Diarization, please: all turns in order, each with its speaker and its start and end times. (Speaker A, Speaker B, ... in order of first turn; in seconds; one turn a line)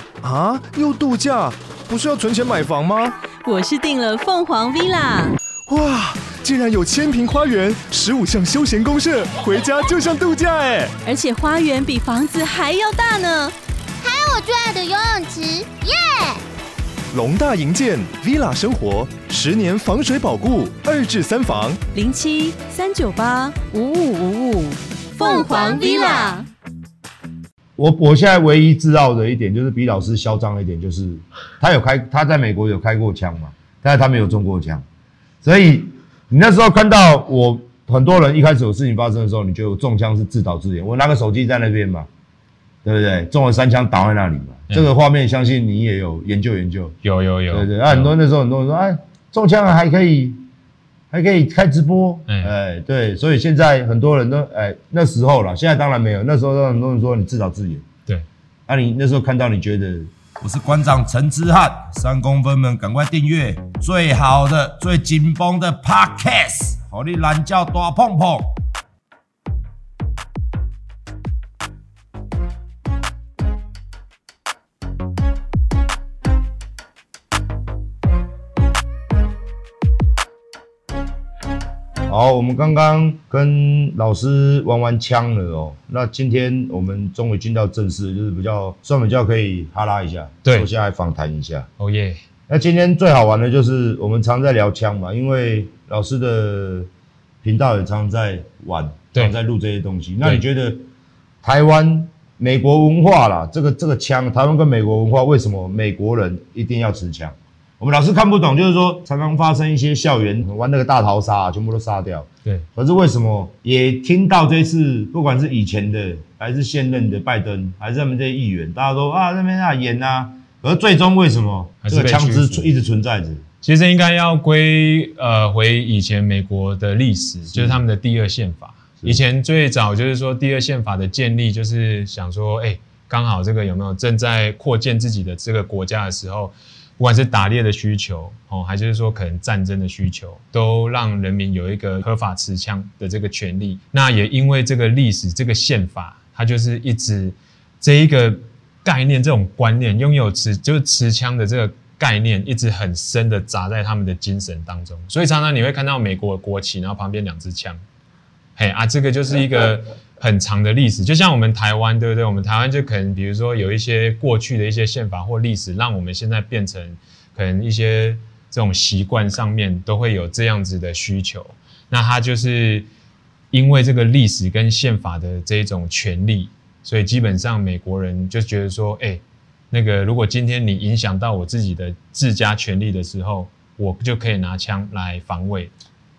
Speaker A: 0.2-3.1
Speaker B: 3.4-5.4
Speaker A: 5.7-10.9
Speaker B: 11.1-13.6
Speaker C: 14.0-16.4
Speaker A: 17.1-21.8
Speaker B: 21.9-26.5
Speaker C: 25.2-26.4
Speaker D: 27.8-34.9
Speaker D: 35.4-42.1
Speaker D: 42.8-47.0
Speaker E: 47.0-48.1
Speaker D: 47.5-50.4
Speaker D: 51.1-57.9
Speaker E: 52.3-52.5
Speaker D: 58.7-68.5
Speaker D: 82.1-91.7
Speaker E: 90.4-90.7
Speaker E: 91.8-92.2
Speaker D: 92.5-96.9
Speaker D: 97.4-100.8
Speaker D: 101.4-123.4
Speaker E: 121.8-122.7
Speaker E: 123.6-157.8
Speaker D: 127.5-127.8
Speaker E: 158.6-172.9
Speaker E: 173.5-185.7